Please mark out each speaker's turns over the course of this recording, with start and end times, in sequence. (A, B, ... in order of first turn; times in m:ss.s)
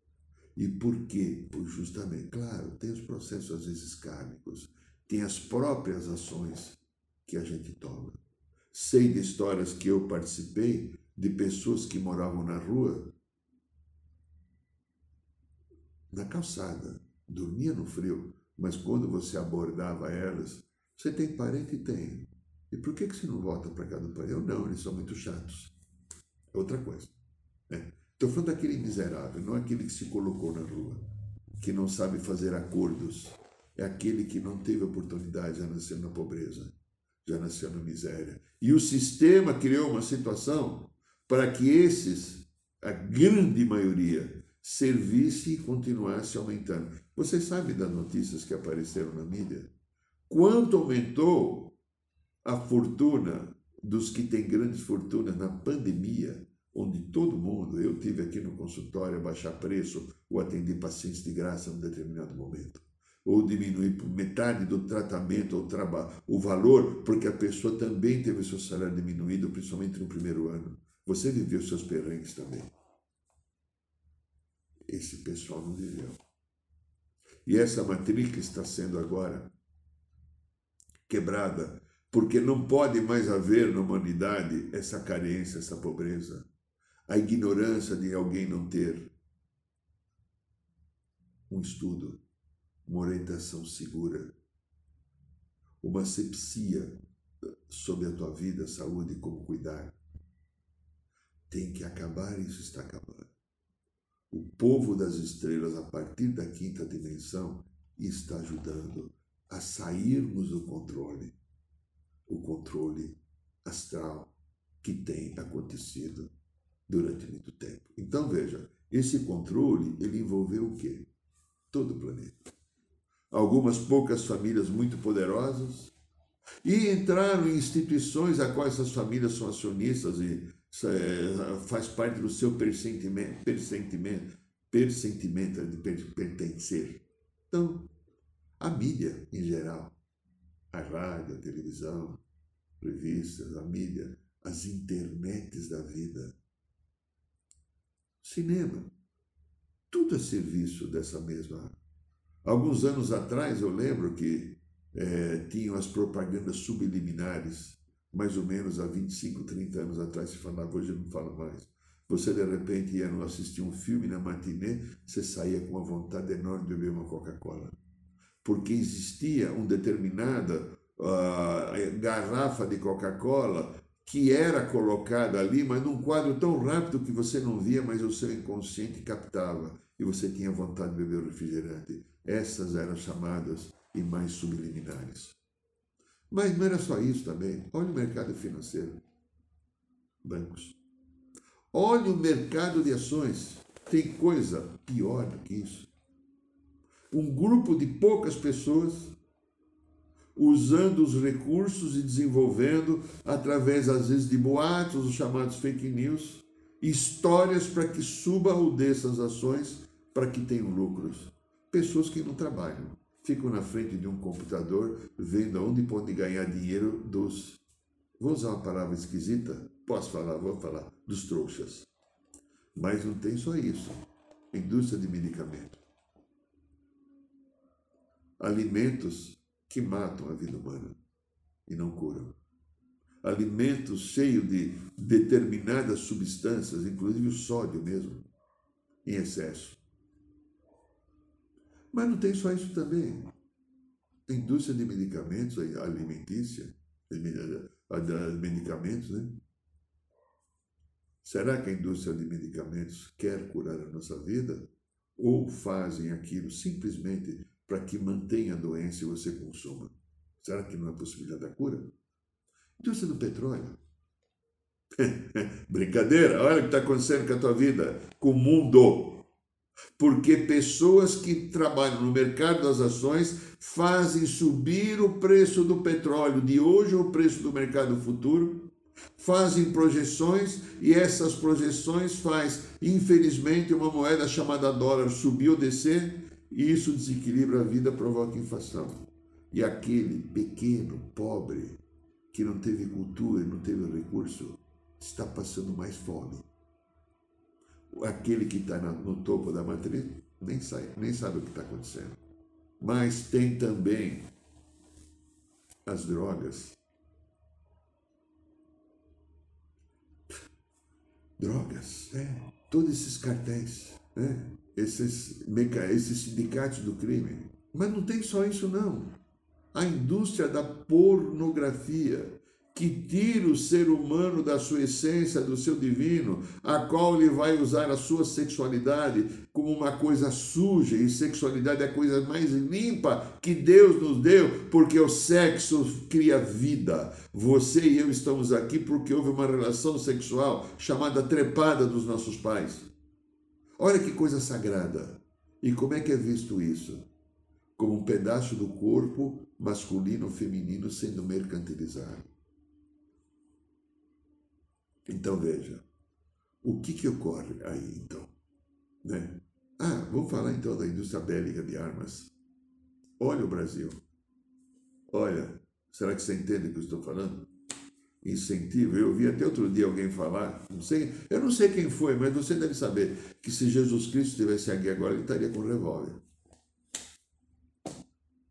0:00.6-0:08.2 A
0:08.7-0:13.1 A
0:16.1-0:25.7 A
0:26.5-0:27.1 A
0:27.7-0:31.0 A
0:31.6-0:36.7 A
0:37.2-0:49.7 A
0:50.3-0:51.8 A
0:52.4-1:12.7 A
1:14.8-1:16.2 A
1:17.4-1:19.5 A
1:21.1-1:26.4 A
1:27.1-1:29.1 A
1:31.5-1:32.2 A
1:32.8-1:34.3 A
1:35.8-1:37.0 A
1:37.7-1:39.9 A
1:41.5-1:43.3 A
1:44.3-1:51.3 A
1:52.3-1:54.3 A
1:54.8-1:56.3 A
1:56.9-2:01.1 A
2:01.7-2:02.5 A
2:03.3-2:05.9 A
2:06.6-2:17.9 A
2:18.6-2:19.9 A
2:20.7-2:22.2 A
2:22.8-2:26.3 A
2:28.2-2:28.9 A
2:29.9-2:31.7 A
2:32.4-2:47.7 A
2:48.4-3:05.4 A
3:06.3-3:09.0 A
3:10.2-3:10.8 A
3:11.7-3:15.9 A
3:17.1-3:19.2 A
3:20.3-3:37.6 A
3:38.2-3:41.9 A
3:42.7-3:45.8 A
3:48.4-3:51.0 A
3:51.6-3:52.3 A
3:53.2-3:58.2 A
3:59.0-3:59.8 A
4:01.9-4:03.3 A
4:04.3-4:09.4 A
4:11.2-4:21.9 A
4:22.8-4:23.8 A
4:25.0-4:29.2 A
4:30.0-4:51.8 A
4:52.3-4:56.4 A
4:57.9-5:02.2 A
5:02.8-5:04.3 A
5:05.8-5:06.8 A
5:11.4-5:19.1 A
5:19.7-5:42.9 A
5:43.8-5:47.1 A
5:47.8-5:52.3 A
5:55.0-5:55.8 A
5:56.6-5:58.3 A
5:59.0-6:02.3 A
6:03.2-6:04.0 A
6:05.1-6:07.5 A
6:08.2-6:16.2 A